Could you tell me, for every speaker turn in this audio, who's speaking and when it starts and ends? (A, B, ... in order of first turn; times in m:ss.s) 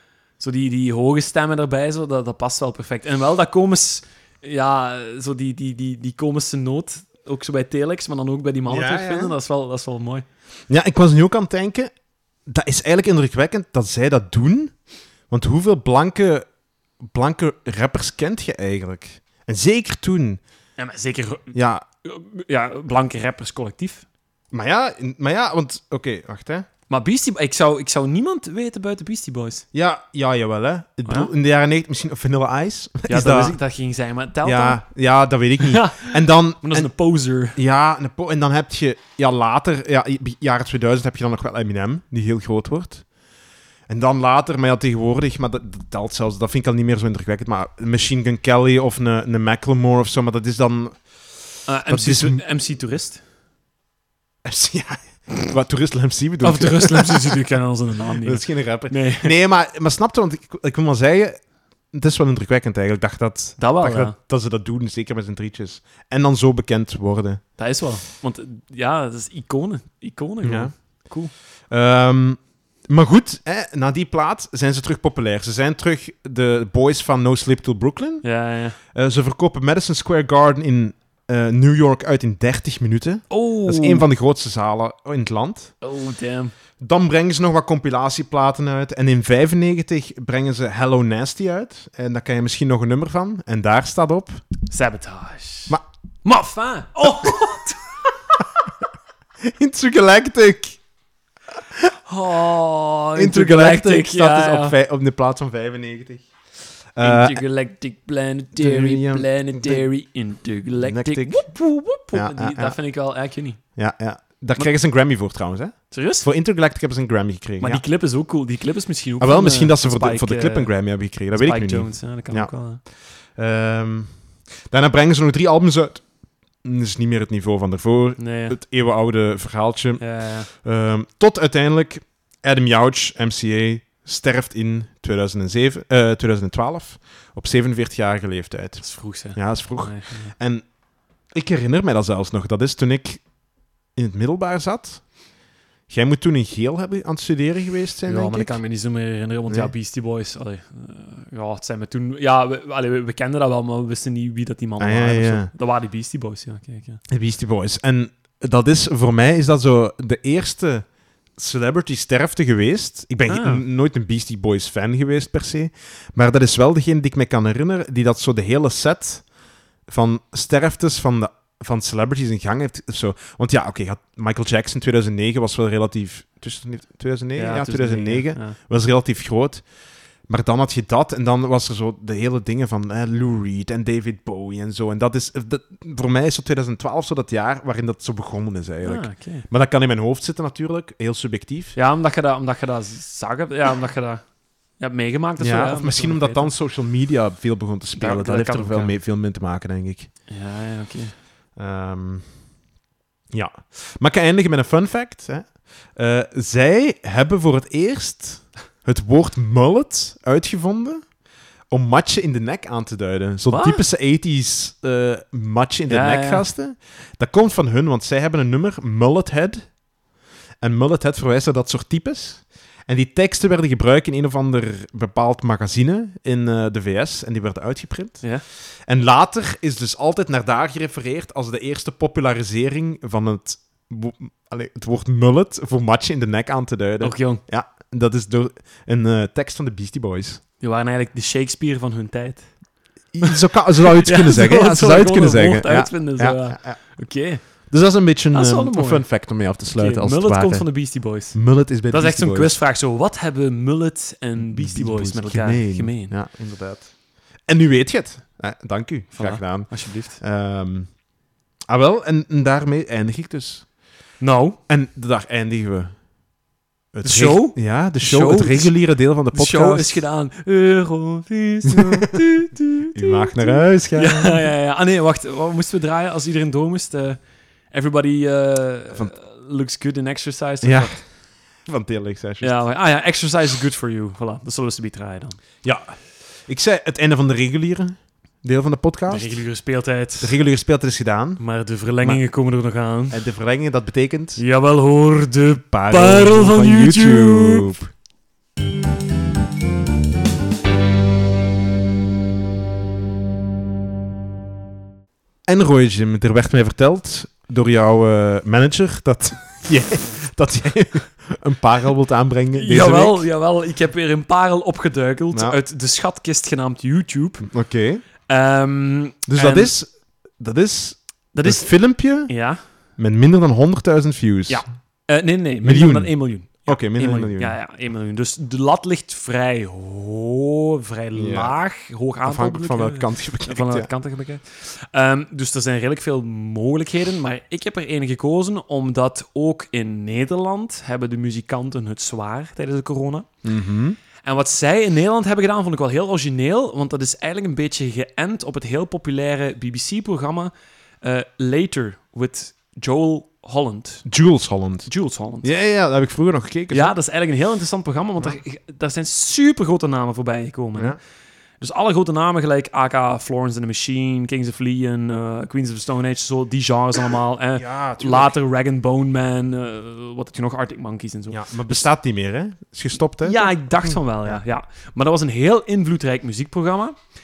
0:00.4-0:10.2 A
0:08.7-0:09.3 B
0:10.7-0:11.9 B
0:12.5-0:14.7 B
0:15.3-0:16.4 B
0:17.0-0:20.4 B
0:20.8-0:24.0 A
0:21.5-0:21.8 B
0:24.5-0:26.7 B
0:26.9-0:29.6 A
0:29.7-0:33.6 B
0:33.1-0:34.8 A
0:34.4-0:36.9 B
0:35.7-0:37.6 A
0:37.5-0:43.1 B
0:43.9-0:51.1 B
0:51.7-0:53.2 A
0:51.8-0:52.4 B
0:54.4-0:57.3 B
0:56.4-0:59.3 A
0:58.2-1:07.4 B
1:03.6-1:04.1 A
1:07.6-1:11.3 A
1:10.4-1:10.7 B
1:11.7-1:18.2 B
1:18.2-1:18.8 A
1:18.9-1:25.7 B
1:23.3-1:24.0 A
1:25.8-1:26.5 A
1:26.8-1:34.4 B
1:34.7-1:37.9 A
1:39.5-1:40.8 B
1:42.0-1:44.8 A
1:43.2-1:46.3 B
1:47.0-1:47.4 B
1:47.0-1:53.6 A
1:48.5-1:49.8 B
1:50.8-1:51.5 B
1:52.1-1:52.8 B
1:53.8-1:57.8 B
1:55.9-1:56.3 A
1:57.6-2:00.7 A
1:59.2-2:02.5 B
2:01.3-2:02.8 A
2:03.3-2:04.1 B
2:04.7-2:20.7 B
2:08.2-2:08.6 A
2:10.0-2:10.5 A
2:18.8-2:20.3 A
2:21.3-2:23.2 B
2:23.9-2:25.2 B
2:25.9-2:28.5 B
2:28.1-2:37.0 A
2:34.8-2:35.5 B
2:37.1-2:49.3 B
2:43.3-2:43.6 A
2:49.8-2:59.6 B
2:57.4-2:58.6 A
3:00.3-3:11.8 B
3:08.8-3:09.5 A
3:11.7-3:14.2 A
3:14.8-3:16.5 A
3:15.4-3:20.1 B
3:18.0-3:18.9 A
3:20.3-3:21.1 A
3:21.6-3:22.2 B
3:23.3-3:31.1 B
3:31.7-3:39.8 B
3:33.5-3:33.8 A
3:35.9-3:36.5 A
3:40.6-4:00.4 B
3:57.0-3:57.4 A
4:00.6-4:02.6 A
4:03.1-4:06.8 B
4:04.0-4:07.5 A
4:07.4-4:12.6 B
4:08.3-4:16.2 A
4:14.4-4:21.0 B
4:19.1-4:20.2 A
4:21.7-4:23.7 B
4:24.2-4:24.6 A
4:24.7-4:26.0 B
4:26.9-4:30.0 B
4:27.0-4:41.0 A
4:32.9-4:34.5 B
4:40.6-4:42.6 B
4:42.4-4:45.4 A
4:45.6-4:49.4 B
4:49.1-4:50.4 A
4:50.2-4:51.4 B
4:51.4-4:53.2 A
4:53.1-4:54.4 B
4:54.4-4:57.7 A
4:55.7-4:57.9 B
5:05.5-5:13.2 B
5:12.5-5:17.5 A
5:15.3-5:15.6 B
5:17.5-5:18.0 B
5:18.2-5:19.7 A
5:19.3-5:22.3 B
5:21.3-5:22.6 A
5:23.0-5:24.6 B
5:24.5-5:43.3 A
5:25.6-5:26.1 B
5:26.6-5:27.6 B
5:31.1-5:31.5 B
5:32.2-5:33.9 B
5:43.4-5:44.0 B
5:44.2-5:54.0 A
5:54.0-5:54.9 B
5:54.9-5:55.5 A
5:55.4-5:56.9 B
5:56.7-6:01.0 A
6:01.6-6:11.9 A
6:07.5-6:08.4 B
6:11.3-6:14.4 B
6:13.2-6:17.0 A